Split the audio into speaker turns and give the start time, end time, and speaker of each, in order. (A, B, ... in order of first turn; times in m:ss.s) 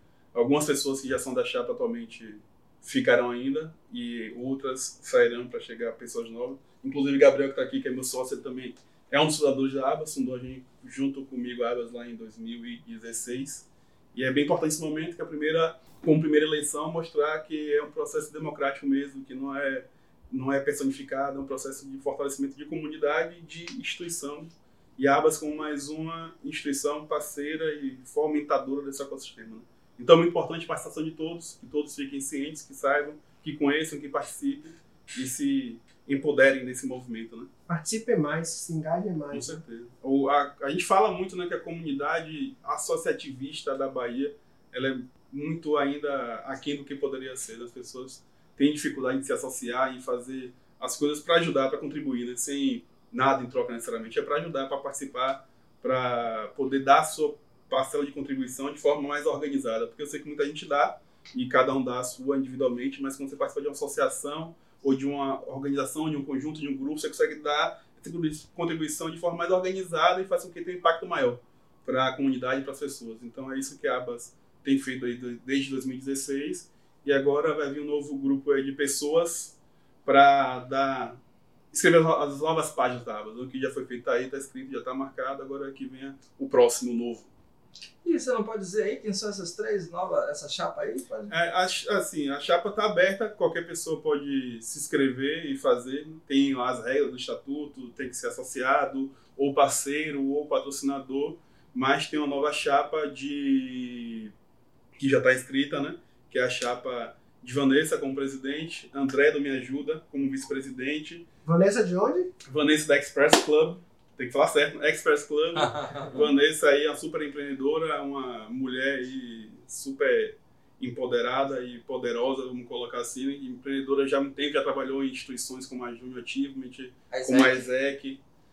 0:00.3-0:37.5 A
0:37.7-0:39.6 B
0:39.3-1:21.2 A
1:21.7-1:27.3 A
1:28.0-1:31.3 C
1:31.3-1:44.3 A
1:45.0-1:51.2 A
1:51.4-1:52.3 B
1:52.4-2:08.2 A
1:55.6-1:56.1 C
2:07.1-2:07.7 C